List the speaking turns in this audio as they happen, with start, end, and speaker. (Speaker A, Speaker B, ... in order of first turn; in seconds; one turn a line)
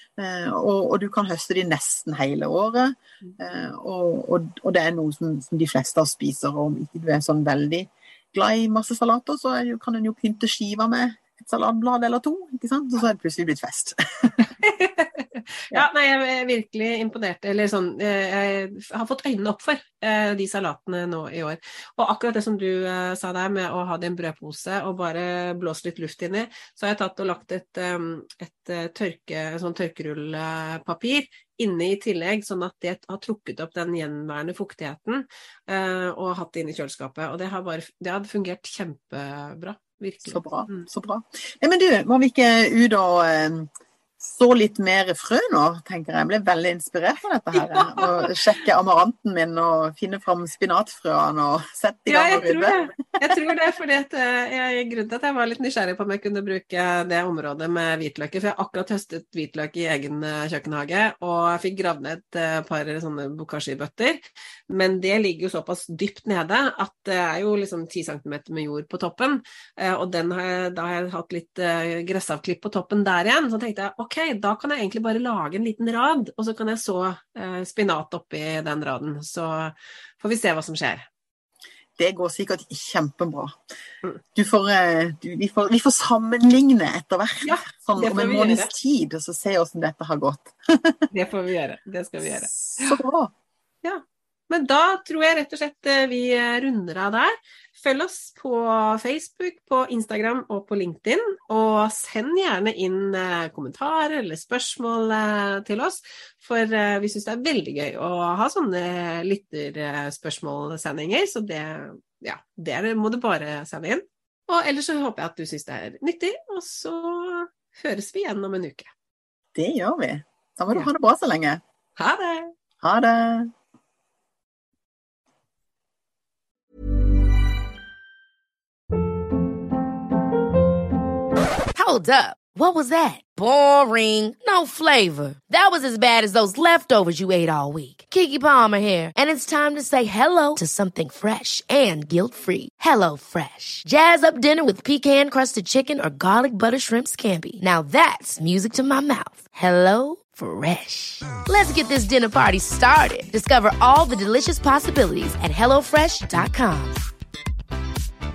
Speaker A: 0.2-14.5
Speaker B: 14.6-40.9
Speaker A: 40.2-53.4
Speaker B: 47.5-48.3
Speaker B: 52.1-81.0
Speaker A: 82.0-83.6
Speaker A: 84.3-91.1
Speaker B: 87.4-88.7
Speaker B: 91.1-93.0
Speaker A: 92.3-93.3
Speaker B: 93.8-118.9
Speaker A: 119.5-121.6
Speaker B: 122.0-122.5
Speaker A: 122.8-123.5
Speaker C: 131.7-157.0